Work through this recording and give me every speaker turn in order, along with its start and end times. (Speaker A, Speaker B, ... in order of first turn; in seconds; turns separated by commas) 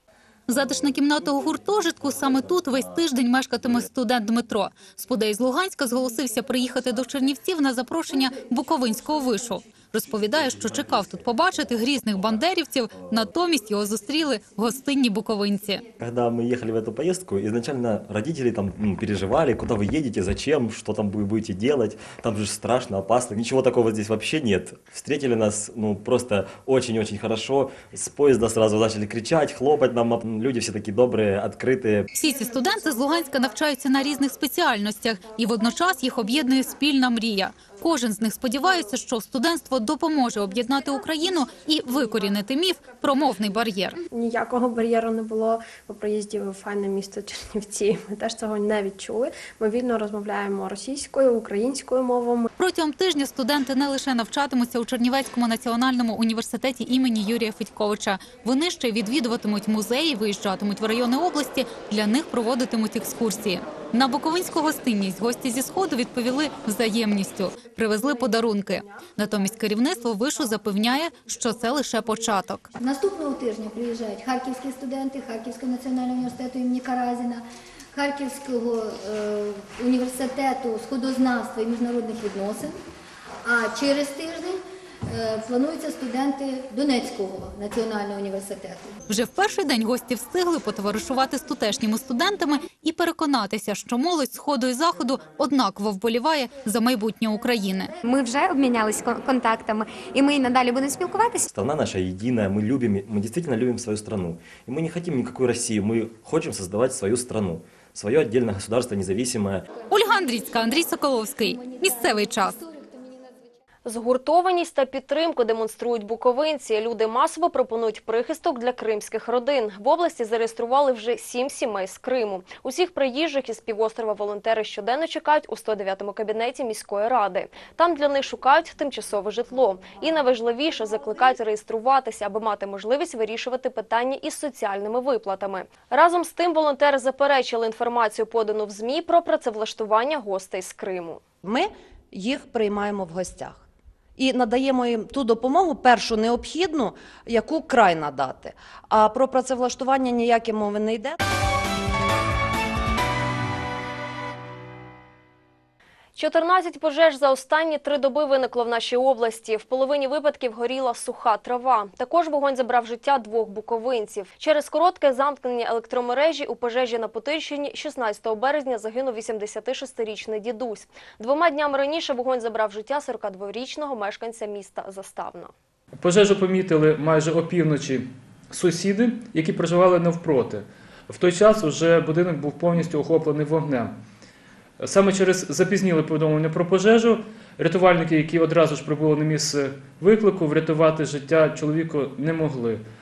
Speaker A: 0.5-15.8, Speaker B: 16.0-32.1, Speaker A: 32.1-44.0, Speaker C: 44.2-52.5, Speaker A: 52.6-72.7, Speaker D: 72.8-77.4, Speaker D: 77.9-82.8, Speaker D: 83.5-88.9, Speaker A: 89.1-97.9, Speaker E: 98.0-101.5, Speaker B: 101.5-109.7, Speaker A: 109.9-112.6, Speaker F: 113.8-141.2, Speaker G: 141.4-143.6, Speaker G: 144.2-151.2, Speaker F: 156.2-175.5, Speaker H: 176.0-184.0, Speaker H: 184.8-192.8